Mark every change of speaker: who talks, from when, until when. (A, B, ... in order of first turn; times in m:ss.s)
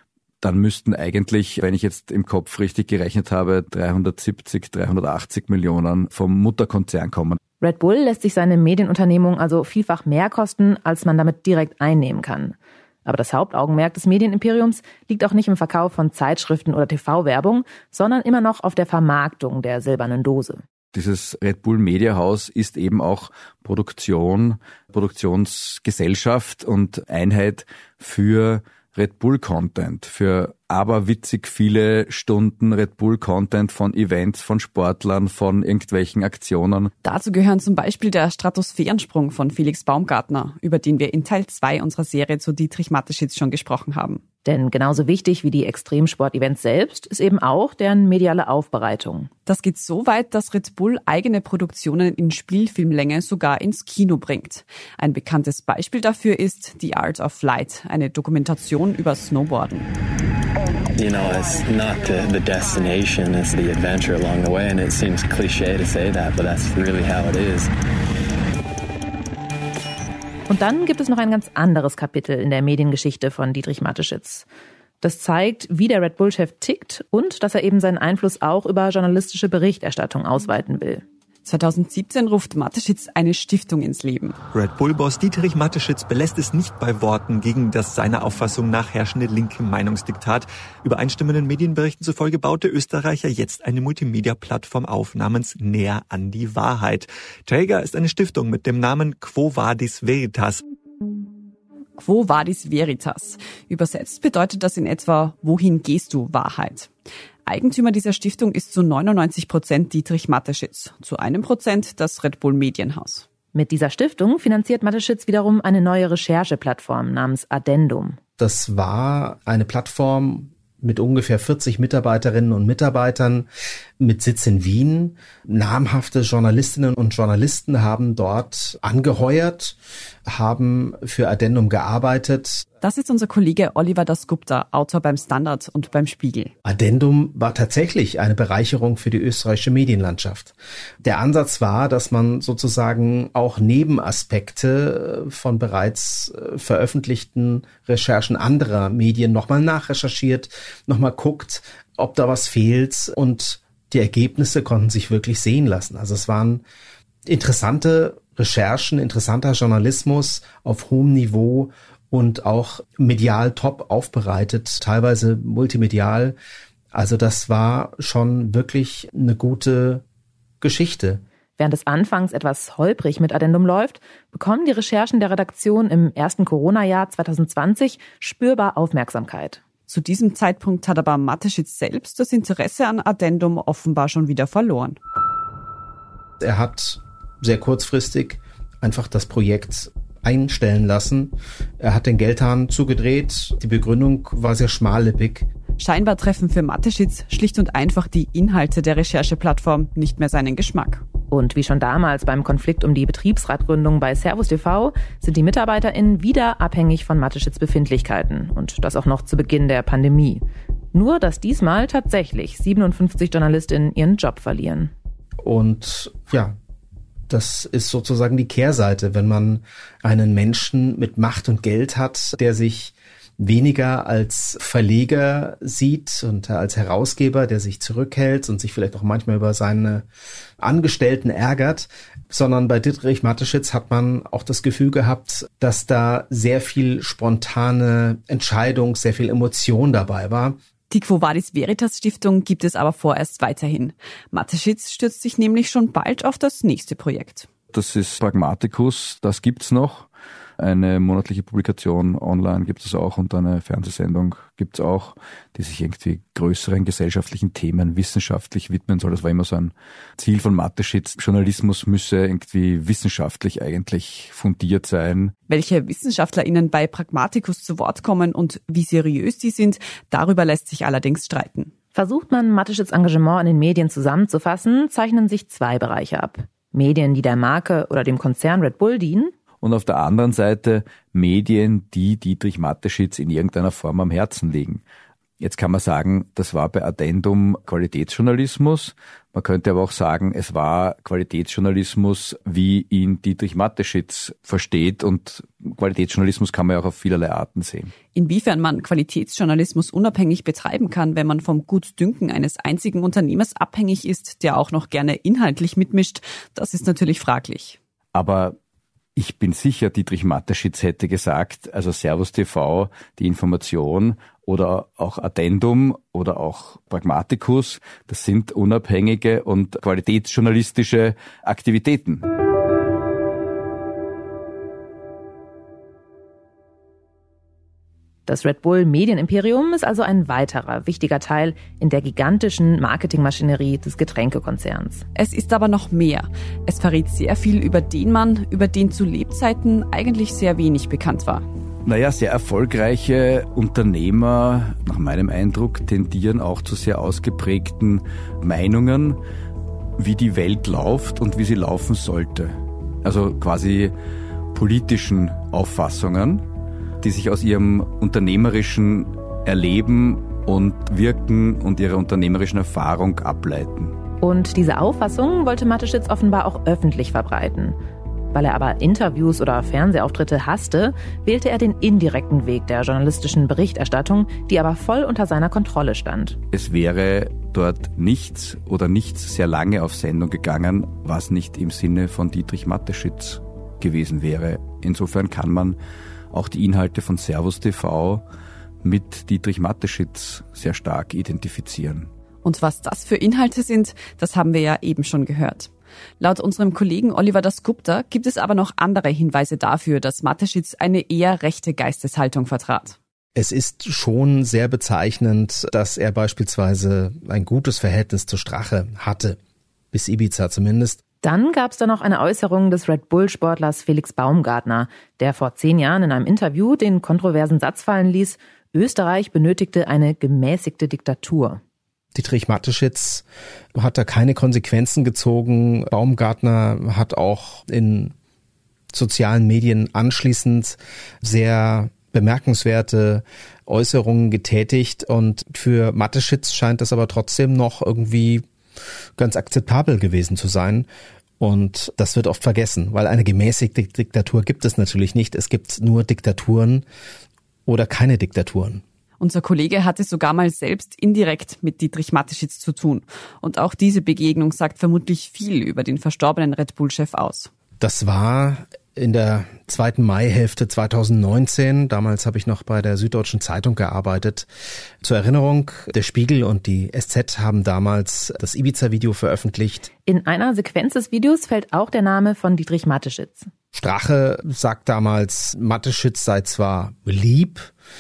0:00.4-0:07.4 A
0:07.6-0:20.6 B
0:20.9-0:36.9 A
0:37.0-0:44.2 C
0:44.4-0:49.3 B
0:49.5-0:59.9 C
1:01.0-1:07.7 D
1:10.5-1:14.5 B
1:15.0-1:21.0 B
1:21.5-1:24.4 C
1:24.5-1:40.6 E
1:42.0-1:46.9 C
1:47.5-1:53.3 C
1:53.5-1:58.2 B
1:58.4-2:03.5 F
2:04.0-2:12.6 F
2:12.8-2:16.5 C
2:16.6-2:36.6 F
2:37.3-2:46.4 F
2:46.9-2:50.0 F
2:50.6-2:51.2 F
2:51.6-2:59.6 B
2:59.9-3:05.0 C
3:06.4-3:15.5 F
3:15.8-3:21.0 C
3:21.3-3:34.9 B
3:35.4-3:36.6 F
3:37.3-3:50.1 F
3:50.6-4:00.6 F
4:00.9-4:07.5 C
4:07.7-4:10.1 A
4:10.6-4:25.3 A
4:25.5-4:31.7 C
4:32.0-4:39.3 B
4:39.6-4:44.8 A
4:45.4-4:57.9 A
4:58.1-5:07.8 C
5:08.1-5:08.6 A
5:09.2-5:22.2 A
5:28.3-5:35.0 B
5:35.2-5:41.4 C
5:41.9-5:49.2 A
5:50.0-5:53.9 A
5:54.5-5:56.4 A
5:57.0-6:04.0 A
6:04.2-6:07.8 B
6:08.3-6:16.4 B
6:16.5-6:25.8 A
6:26.3-6:28.2 A
6:28.8-6:32.1 A
6:32.4-6:43.0 C
6:43.4-6:49.4 F
6:49.9-6:51.0 F
6:51.2-7:01.6 B
7:02.1-7:08.1 F
7:08.9-7:18.4 F
7:19.2-7:20.9 F
7:21.4-7:26.8 F
7:27.7-7:28.8 F
7:29.2-7:37.5 C
7:37.8-7:44.5 F
7:45.0-7:49.9 F
7:50.1-7:53.5 B
7:53.7-7:57.7 F